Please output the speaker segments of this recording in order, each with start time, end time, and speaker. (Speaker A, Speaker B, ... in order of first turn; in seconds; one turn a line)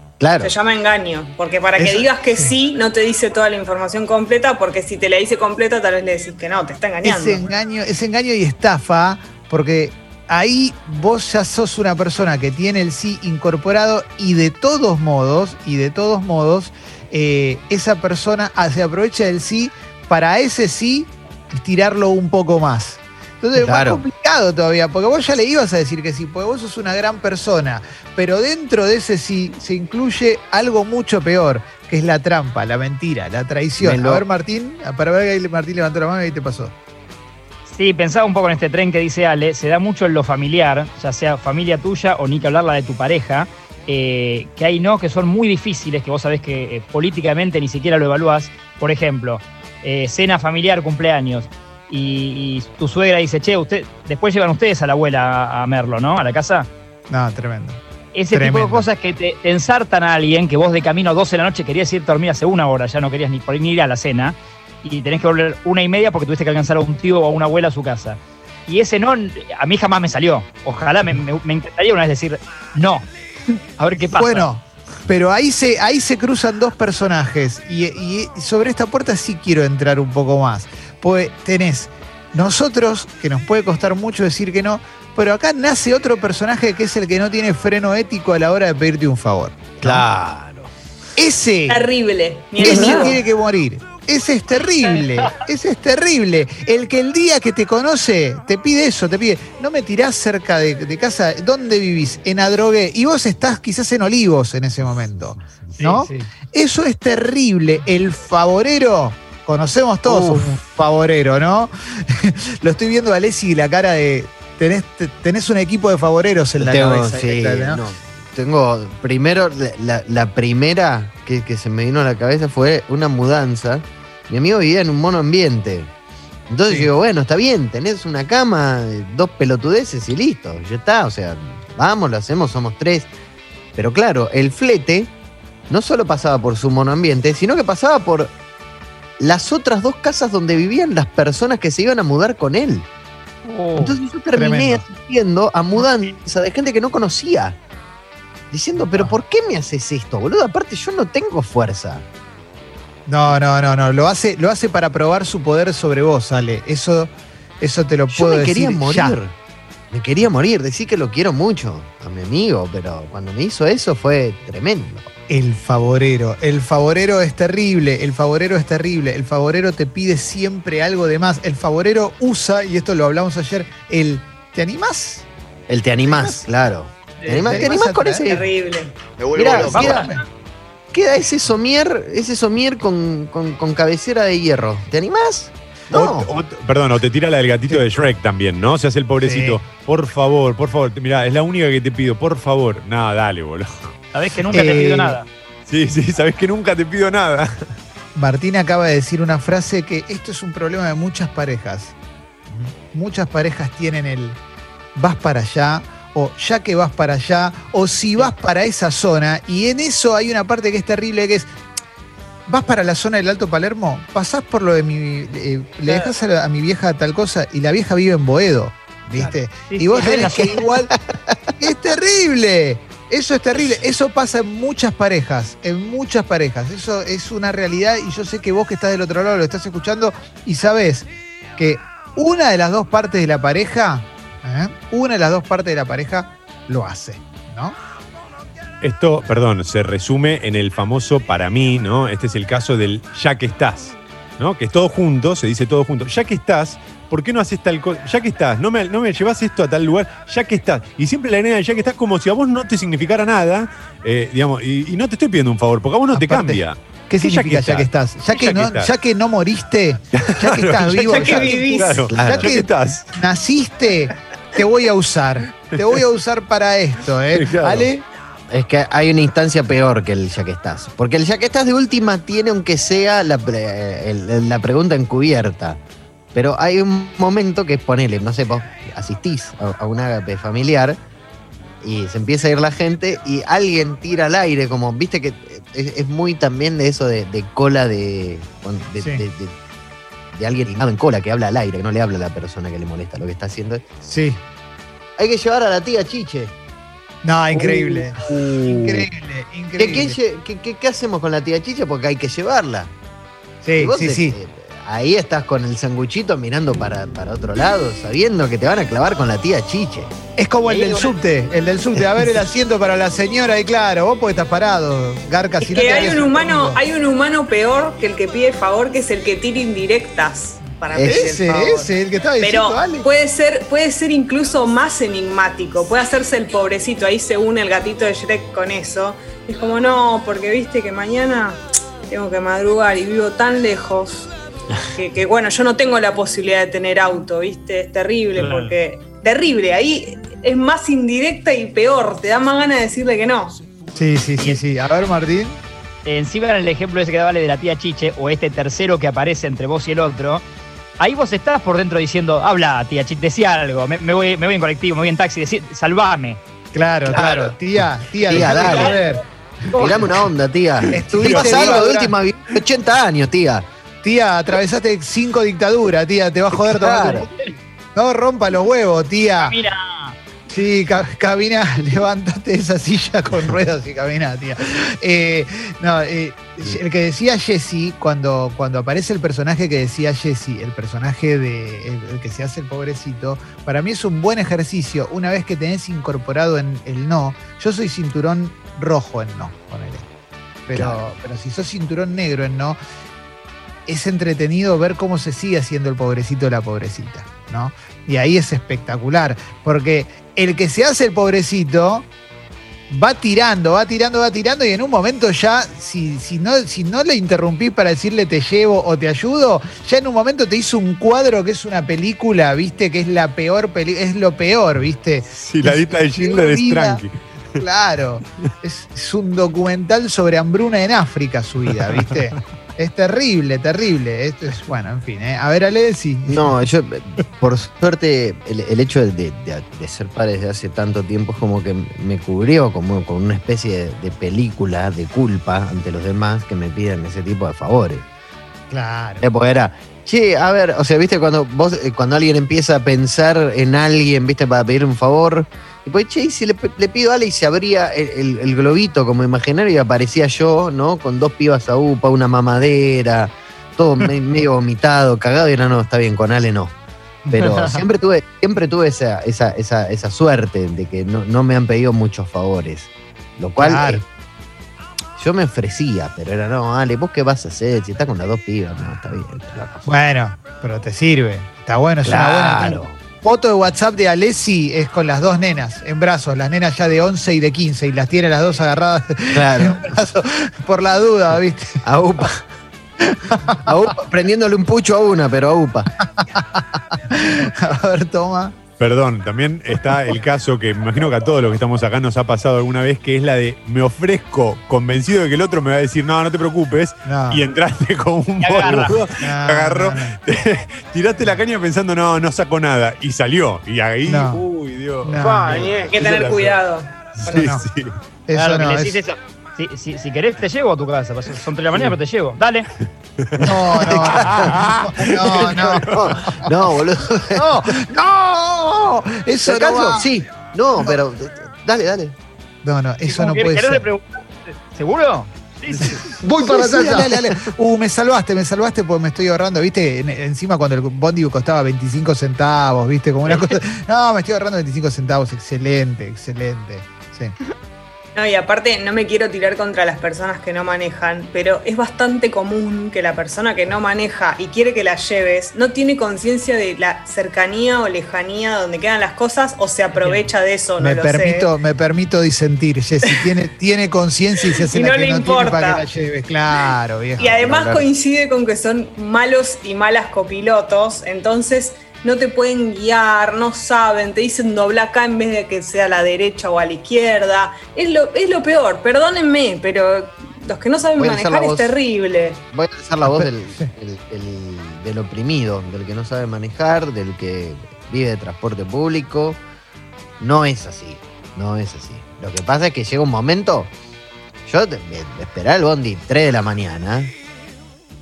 Speaker A: 0.2-0.5
Speaker B: 0.4-7.5
Speaker C: 1.8-2.5
Speaker C: 7.0-36.7
Speaker A: 23.6-24.0
Speaker A: 33.8-34.2
Speaker D: 37.7-56.7
Speaker C: 57.1-57.8
Speaker D: 58.1-73.0
Speaker C: 58.3-58.9
Speaker D: 73.8-74.5
Speaker C: 74.1-90.1
Speaker A: 89.8-90.7
Speaker C: 91.2-91.8
Speaker B: 91.7-93.2
Speaker C: 92.6-117.8
Speaker D: 105.8-106.3
Speaker A: 110.0-110.6
Speaker A: 116.6-125.9
Speaker A: 126.5-133.1
Speaker A: 133.8-135.1
Speaker A: 135.7-138.3
Speaker A: 139.2-142.9
Speaker D: 143.4-144.0
Speaker A: 143.8-147.6
Speaker C: 144.3-144.8
Speaker A: 148.5-152.1
Speaker C: 148.8-149.2
Speaker C: 153.1-159.2
Speaker A: 158.1-159.3
Speaker A: 159.9-165.1
Speaker C: 165.3-175.3
Speaker A: 175.7-178.5
Speaker C: 176.0-176.4
Speaker C: 177.4-178.3
Speaker B: 177.4-177.7
Speaker B: 178.3-179.0
Speaker A: 179.3-180.1
Speaker C: 179.3-180.2
Speaker D: 179.4-180.2
Speaker A: 180.9-186.3
Speaker E: 185.9-194.0
Speaker C: 189.2-189.6
Speaker D: 194.1-195.3
Speaker C: 194.5-195.2
Speaker E: 195.7-197.7
Speaker C: 198.2-201.9
Speaker C: 202.5-204.4
Speaker C: 205.0-211.5
Speaker C: 212.5-220.9
Speaker D: 219.2-220.7
Speaker A: 220.1-221.5
Speaker C: 221.6-237.8
Speaker E: 238.8-258.9
Speaker C: 256.1-268.1
Speaker E: 260.1-263.2
Speaker B: 261.0-262.1
Speaker A: 262.1-262.6
Speaker E: 265.7-266.0
Speaker E: 267.3-267.9
Speaker A: 268.5-275.8
Speaker A: 276.3-281.0
Speaker A: 281.8-289.6
Speaker C: 289.0-289.2
Speaker A: 290.3-293.8
Speaker C: 294.0-294.4
Speaker A: 295.2-296.5
Speaker C: 297.2-300.2
Speaker A: 299.8-302.9
Speaker C: 303.6-304.4
Speaker A: 303.8-310.1
Speaker C: 310.4-316.8
Speaker D: 310.6-311.1
Speaker B: 315.6-334.3
Speaker A: 320.9-321.3
Speaker C: 321.0-323.1
Speaker B: 334.9-343.6
Speaker D: 338.4-338.7
Speaker C: 343.9-345.6
Speaker D: 346.1-350.4
Speaker D: 351.0-356.4
Speaker C: 356.7-359.2
Speaker A: 357.1-357.5
Speaker A: 358.3-359.0
Speaker D: 358.3-359.1
Speaker D: 359.7-360.1
Speaker A: 359.8-363.7
Speaker C: 360.9-362.1
Speaker E: 361.2-361.8
Speaker C: 364.0-367.3
Speaker A: 366.5-367.3
Speaker D: 367.1-367.4
Speaker C: 367.9-369.6
Speaker D: 369.4-370.2
Speaker C: 370.5-390.1
Speaker C: 390.7-392.8
Speaker A: 390.7-391.0
Speaker C: 393.9-402.1
Speaker C: 402.9-417.0
Speaker E: 415.3-417.6
Speaker C: 417.6-426.5
Speaker E: 421.7-422.4
Speaker A: 426.3-438.1
Speaker C: 438.7-439.3
Speaker A: 439.2-456.7
Speaker C: 457.3-457.8
Speaker A: 457.3-464.1
Speaker C: 463.6-464.0
Speaker A: 465.2-469.9
Speaker C: 469.9-481.8
Speaker A: 472.0-473.0
Speaker A: 479.3-480.0
Speaker A: 481.8-482.5
Speaker C: 483.0-483.7
Speaker A: 483.6-485.9
Speaker C: 486.0-488.6
Speaker E: 488.8-506.6
Speaker C: 497.1-497.4
Speaker D: 498.4-499.1
Speaker C: 499.2-500.2
Speaker C: 501.2-501.4
Speaker C: 504.1-504.4
Speaker C: 505.0-505.8
Speaker B: 505.9-507.5
Speaker E: 507.1-508.0
Speaker C: 507.3-507.7
Speaker C: 508.3-509.0
Speaker D: 508.4-512.7
Speaker E: 513.2-516.4
Speaker C: 513.4-516.6
Speaker A: 514.2-514.5
Speaker A: 515.8-517.9
Speaker C: 517.3-520.1
Speaker A: 519.4-522.1
Speaker C: 522.6-523.9
Speaker D: 523.1-526.1
Speaker C: 525.8-537.3
Speaker A: 526.2-527.5
Speaker D: 533.2-533.5
Speaker B: 538.1-551.5
Speaker D: 550.0-550.3
Speaker C: 550.8-557.8
Speaker B: 554.7-555.9
Speaker B: 557.2-572.4
Speaker A: 557.4-557.8
Speaker A: 571.0-571.8
Speaker A: 572.5-579.4
Speaker C: 573.0-573.7
Speaker A: 580.2-583.7
Speaker A: 584.5-587.1